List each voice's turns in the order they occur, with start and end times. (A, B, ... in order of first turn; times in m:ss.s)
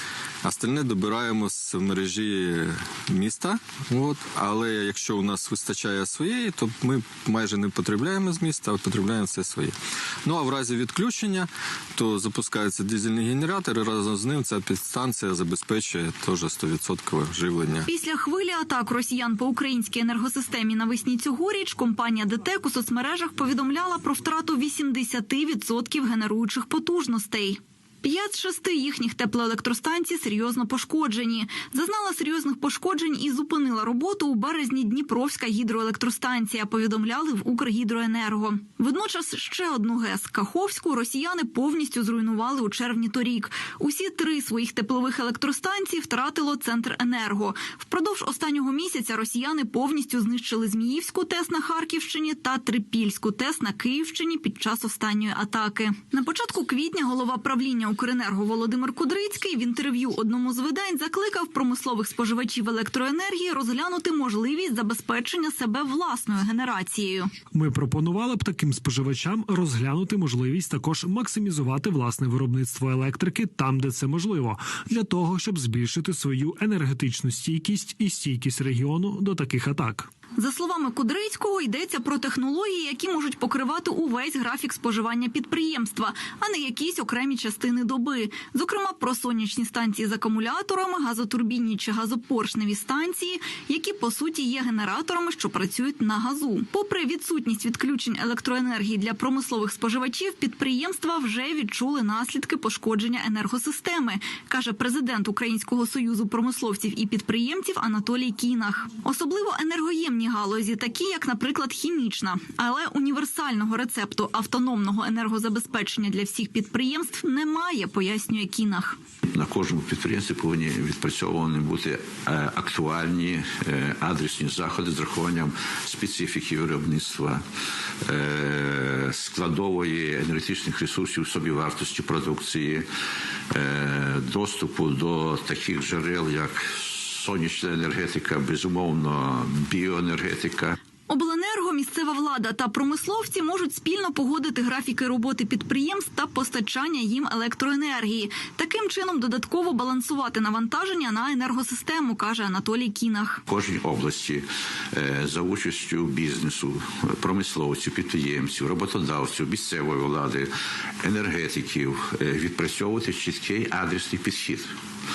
0:00.4-0:17.9 A
0:17.9-1:07.3 B
1:07.5-1:20.1 C
1:20.4-1:59.0 B
1:59.3-2:07.4 D
2:08.0-2:12.8 D
2:13.5-2:20.8 D
2:21.1-2:33.4 B
2:33.5-2:40.5 D
2:41.0-2:44.7 D